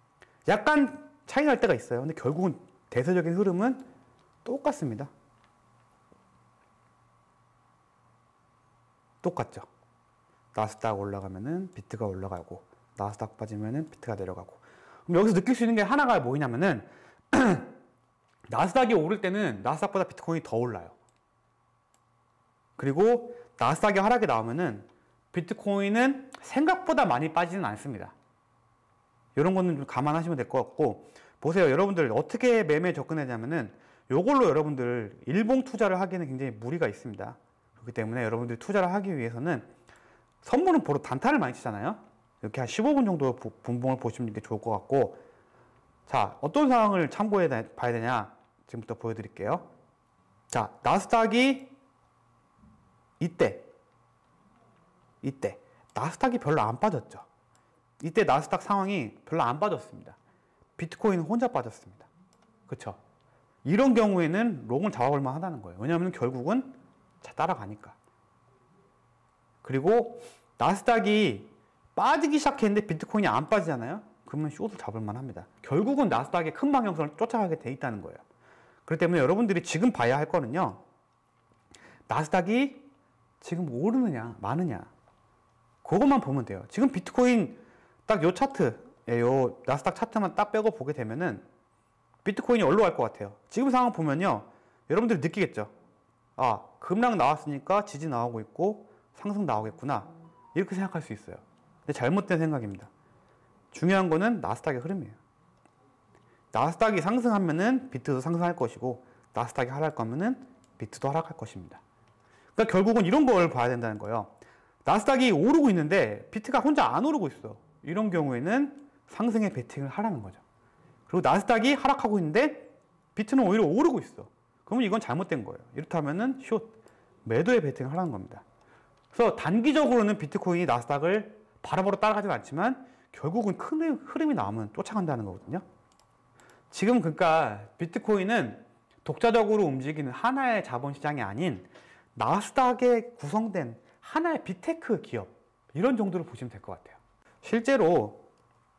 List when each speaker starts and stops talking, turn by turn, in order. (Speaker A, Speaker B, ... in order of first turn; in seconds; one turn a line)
Speaker A: 0.5-3.8
Speaker A: 4.4-5.1
Speaker A: 9.2-9.7
Speaker A: 10.5-17.7
Speaker A: 18.5-20.9
Speaker A: 22.8-28.1
Speaker A: 29.4-39.7
Speaker A: 40.4-45.2
Speaker A: 46.1-49.7
Speaker A: 50.5-51.8
Speaker A: 53.2-53.7
Speaker A: 55.2-57.2
Speaker A: 58.0-60.2
Speaker A: 60.8-62.1
Speaker A: 62.7-63.0
Speaker A: 63.6-68.0
Speaker A: 69.6-78.2
Speaker A: 78.9-80.8
Speaker A: 82.1-82.9
Speaker A: 83.4-84.9
Speaker A: 85.8-91.5
Speaker A: 92.2-95.7
Speaker A: 96.4-102.9
Speaker A: 103.7-105.2
Speaker A: 106.5-111.8
Speaker A: 112.5-114.3
Speaker A: 114.8-120.4
Speaker A: 121.1-128.4
Speaker A: 129.1-135.6
Speaker A: 136.7-148.2